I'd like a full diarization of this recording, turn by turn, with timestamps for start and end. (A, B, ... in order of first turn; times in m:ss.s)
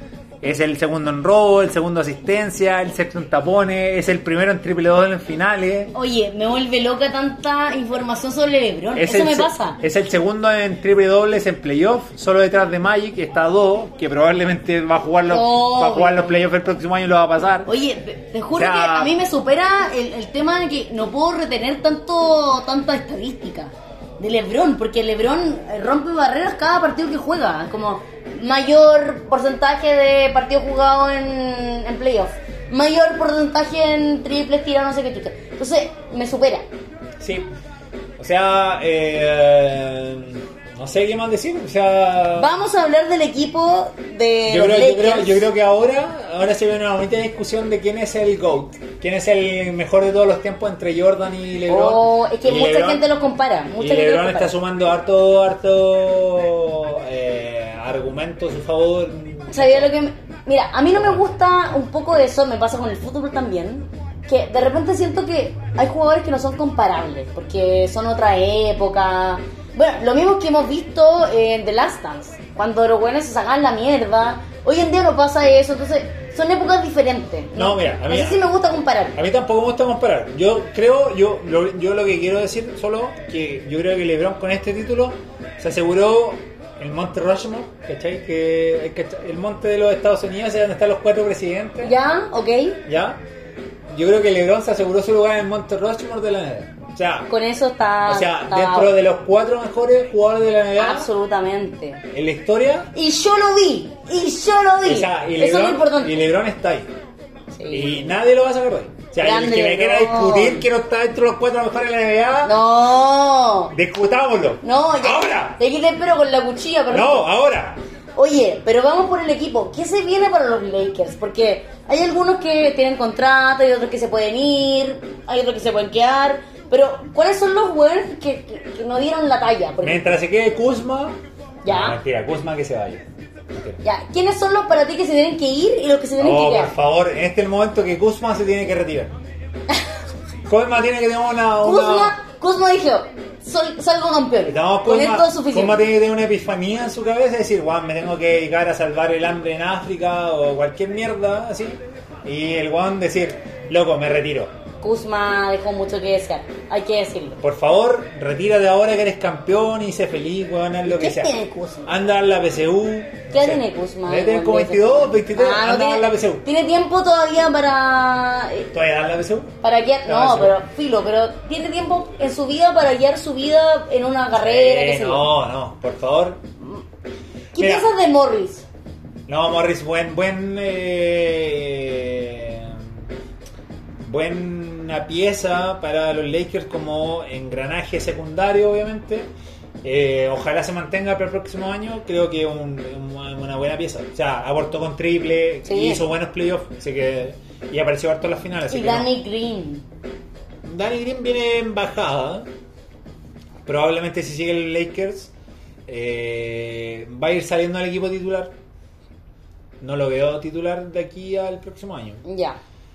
0:00.4-0:05.9 A
0:05.9-0:09.8 B
0:08.9-0:17.7 A
0:15.3-0:16.5 B
0:17.6-0:36.6 B
0:18.6-0:19.1 A
0:37.2-0:37.5 A
0:38.2-0:42.5 A
0:42.4-0:45.4 B
0:44.5-0:53.1 A
0:51.7-0:54.5 B
0:53.7-0:59.9 A
0:59.5-1:19.2 B
1:17.5-1:18.4 A
1:19.2-1:31.9 A
1:31.8-1:32.8 B
1:32.9-1:33.2 A
1:33.9-1:37.3 A
1:37.3-1:38.9 B
1:38.1-1:41.1 A
1:40.8-1:42.0 B
1:42.1-1:42.9 A
1:42.9-1:46.1 B
1:44.8-1:46.9 A
1:47.5-1:47.9 B
1:47.7-1:52.5 A
1:49.2-1:50.6 B
1:52.4-1:53.7 B
1:53.7-1:55.6 A
1:54.6-1:57.3 B
1:56.9-1:57.8 A
1:58.2-2:10.1 B
2:09.8-2:13.8 A
2:11.6-2:12.0 B
2:13.8-2:16.7 B
2:16.2-2:19.1 A
2:20.5-2:22.1 A
2:21.6-2:25.8 B
2:24.4-2:34.5 A
2:34.8-2:37.4 B
2:37.4-2:41.3 A
2:40.9-2:41.9 B
2:41.8-2:46.4 A
2:43.3-2:48.7 B
2:48.7-2:49.5 A
2:49.6-2:55.3 B
2:50.0-2:50.6 A
2:54.3-2:56.4 A
2:57.5-2:58.6 B
2:57.6-2:57.9 A
2:59.3-3:03.0 A
3:04.0-3:09.3 A
3:09.8-3:19.1 A
3:15.6-3:16.0 B
3:18.7-3:19.8 B
3:20.6-3:22.4 A
3:23.6-3:25.3 A
3:25.9-3:28.5 A
3:29.8-3:32.2 A
3:32.2-3:32.6 B